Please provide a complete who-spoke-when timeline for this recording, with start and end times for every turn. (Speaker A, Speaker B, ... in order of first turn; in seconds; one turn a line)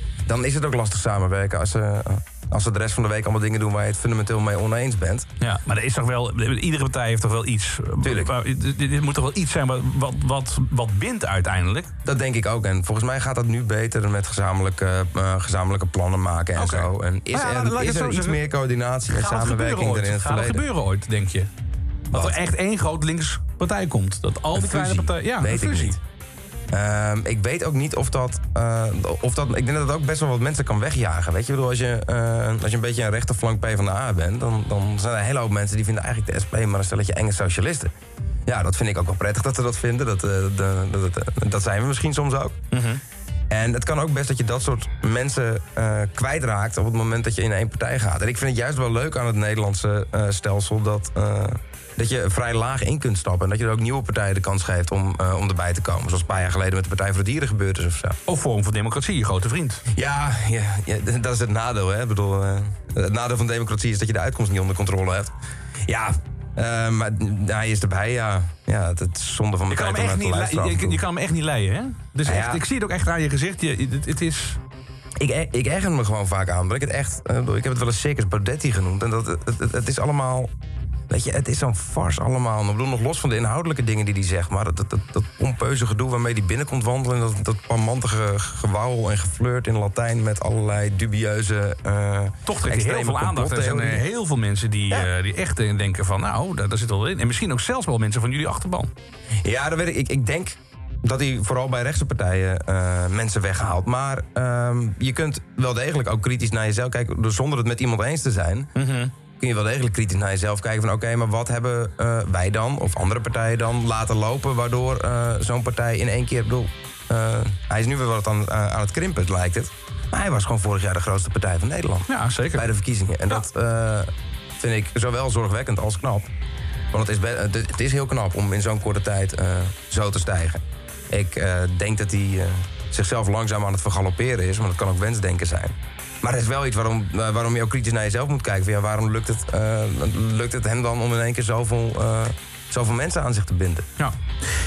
Speaker A: 0.3-5.3
Speaker B: 5.4-11.9
Speaker A: 8.0-8.3
Speaker A: 12.0-20.6
Speaker B: 16.6-18.4
Speaker B: 19.1-21.5
Speaker B: 22.1-26.0
Speaker A: 24.5-26.0
Speaker A: 26.7-37.9
Speaker A: 38.5-42.6
Speaker B: 42.7-43.0
Speaker A: 43.5-58.2
Speaker B: 58.3-59.8
Speaker A: 59.9-65.3
Speaker A: 65.9-71.0
Speaker B: 69.7-74.6
Speaker A: 72.2-72.6
Speaker A: 75.2-80.5
Speaker A: 81.1-94.0
Speaker B: 92.5-98.9
Speaker A: 99.4-108.7
Speaker B: 108.8-109.1
Speaker A: 109.4-126.3
Speaker B: 122.1-122.6
Speaker A: 126.9-130.6
Speaker A: 131.1-143.9